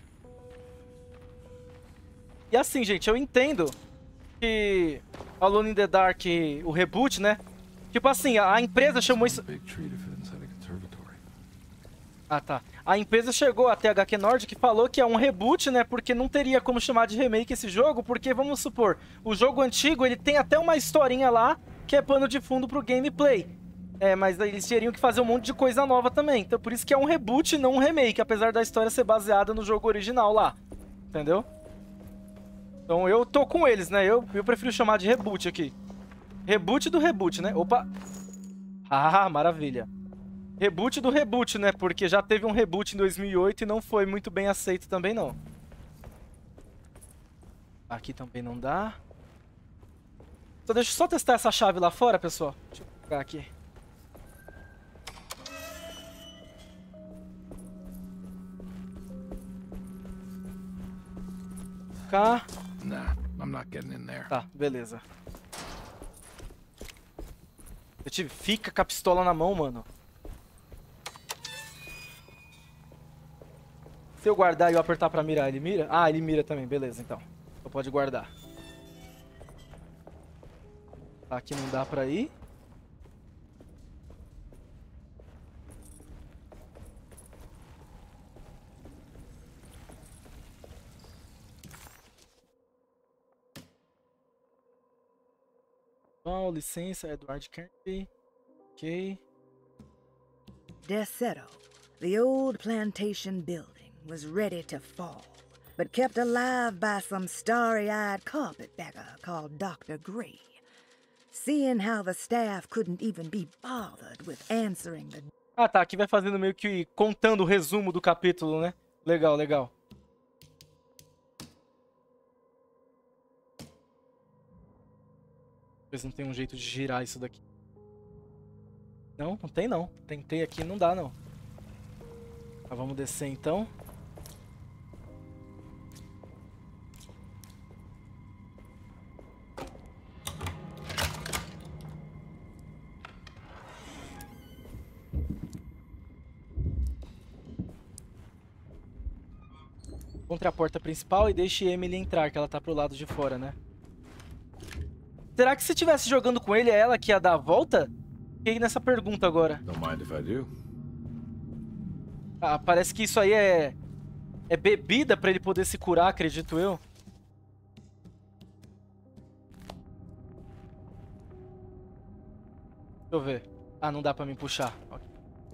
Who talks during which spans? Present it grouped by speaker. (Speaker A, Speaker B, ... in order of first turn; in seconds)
Speaker A: 2.5-3.8, 4.4-7.4, 7.9-9.4, 12.3-30.6, 31.1-31.5, 32.9-35.8, 36.5-37.9, 38.9-39.9, 40.6-45.4, 47.9-49.0, 50.7-53.5, 62.1-62.5, 64.3-65.0, 68.0-69.9, 74.2-78.3, 81.3-82.3, 96.2-98.1, 98.8-99.2, 115.6-119.7, 125.9-127.4, 129.2-131.2, 132.7-133.7, 150.3-153.6, 155.4-157.9, 158.4-159.6, 162.4-163.8, 164.5-166.8, 173.1-175.1
Speaker B: 9.1-11.2, 62.8-64.3, 159.7-160.5
Speaker C: 100.9-101.5, 102.0-105.2, 105.8-110.4, 111.3-115.2